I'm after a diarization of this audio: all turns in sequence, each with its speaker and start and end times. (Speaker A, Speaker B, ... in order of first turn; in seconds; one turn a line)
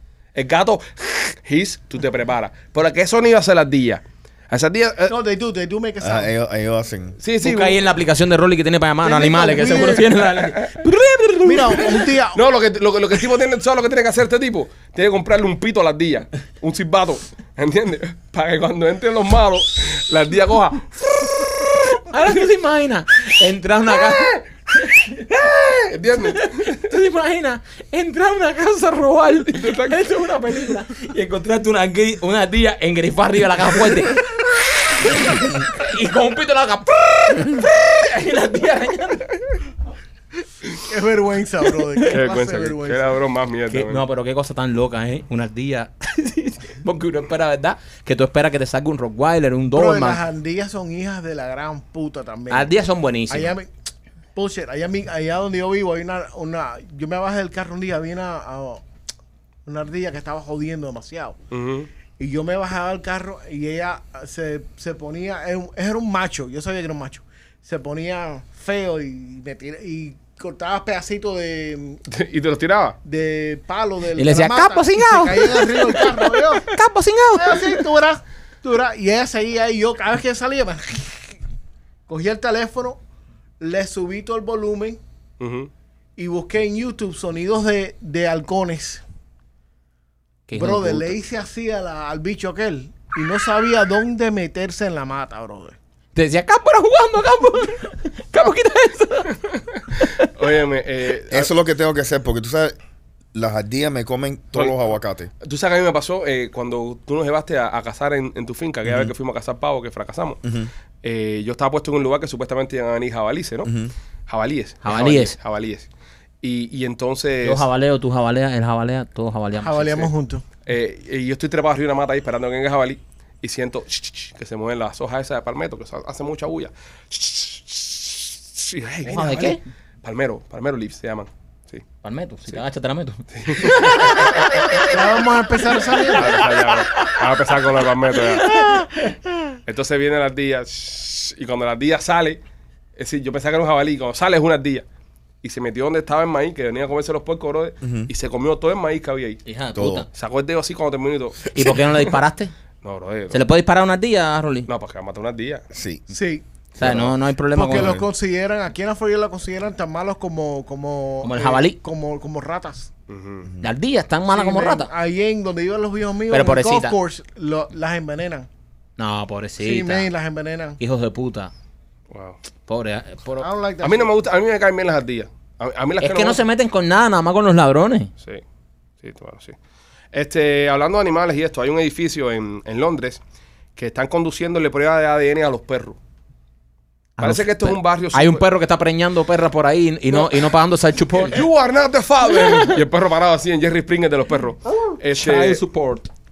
Speaker A: 0.3-5.2
Speaker B: 5.1-6.3
Speaker C: 6.0-7.2
Speaker A: 7.2-7.8
Speaker D: 7.4-12.0
Speaker B: 9.0-10.1
Speaker A: 10.3-10.8
Speaker B: 11.4-12.4
Speaker A: 12.3-21.6
Speaker D: 21.9-25.6
Speaker A: 25.7-26.9
Speaker D: 26.2-39.4
Speaker A: 29.5-30.0
Speaker B: 40.9-43.0
Speaker A: 42.1-44.0
Speaker D: 43.7-50.2
Speaker B: 49.7-52.7
Speaker D: 52.5-53.5
Speaker B: 53.3-53.7
Speaker B: 54.4-58.8
Speaker B: 59.6-61.4
Speaker A: 61.5-61.9
Speaker B: 62.2-72.0
Speaker A: 72.1-73.0
Speaker B: 73.0-76.7
Speaker D: 74.2-77.7
Speaker B: 77.3-81.3
Speaker B: 82.1-83.0
Speaker B: 83.6-85.0
Speaker A: 85.4-85.7
Speaker B: 86.2-89.0
Speaker D: 90.5-91.1
Speaker B: 90.5-95.8
Speaker D: 96.1-99.4
Speaker D: 99.9-100.3
Speaker A: 100.2-101.5
Speaker C: 101.3-102.8
Speaker C: 103.3-105.3
Speaker A: 104.5-104.8
Speaker A: 105.4-110.4
Speaker C: 108.8-109.1
Speaker C: 110.4-110.7
Speaker A: 111.0-113.7
Speaker C: 113.6-113.9
Speaker A: 114.3-115.9
Speaker D: 114.8-115.3
Speaker A: 116.4-117.7
Speaker D: 117.4-120.1
Speaker B: 119.6-120.4
Speaker A: 120.7-131.8
Speaker D: 129.1-129.6
Speaker D: 132.0-134.9
Speaker A: 133.3-134.5
Speaker B: 134.9-136.4
Speaker A: 136.2-138.5
Speaker D: 136.3-137.2
Speaker D: 138.4-138.8
Speaker B: 138.5-138.9
Speaker A: 139.7-142.4
Speaker A: 142.9-144.8
Speaker A: 145.4-149.4
Speaker C: 147.8-148.1
Speaker D: 149.4-150.1
Speaker C: 149.8-150.1
Speaker A: 150.1-152.0
Speaker D: 151.5-152.5
Speaker A: 152.8-153.4
Speaker D: 153.3-154.7
Speaker A: 154.7-155.6
Speaker C: 155.7-156.0
Speaker B: 156.1-156.4
Speaker D: 156.8-158.0
Speaker C: 156.8-158.1
Speaker B: 157.5-162.9
Speaker D: 161.2-161.8
Speaker A: 163.1-163.5
Speaker D: 163.6-164.9
Speaker B: 164.3-168.5
Speaker D: 166.3-167.0
Speaker D: 169.0-170.1
Speaker B: 169.6-170.8
Speaker D: 170.8-171.5
Speaker A: 172.1-172.4
Speaker D: 172.7-173.5
Speaker B: 173.4-174.1
Speaker A: 173.8-176.4
Speaker D: 176.0-178.1
Speaker A: 179.0-179.6
Speaker A: 180.1-183.2
Speaker A: 183.8-186.0
Speaker D: 187.2-191.4
Speaker A: 187.2-188.4
Speaker A: 190.1-190.5
Speaker A: 191.1-195.6
Speaker D: 192.3-192.8
Speaker D: 195.1-196.1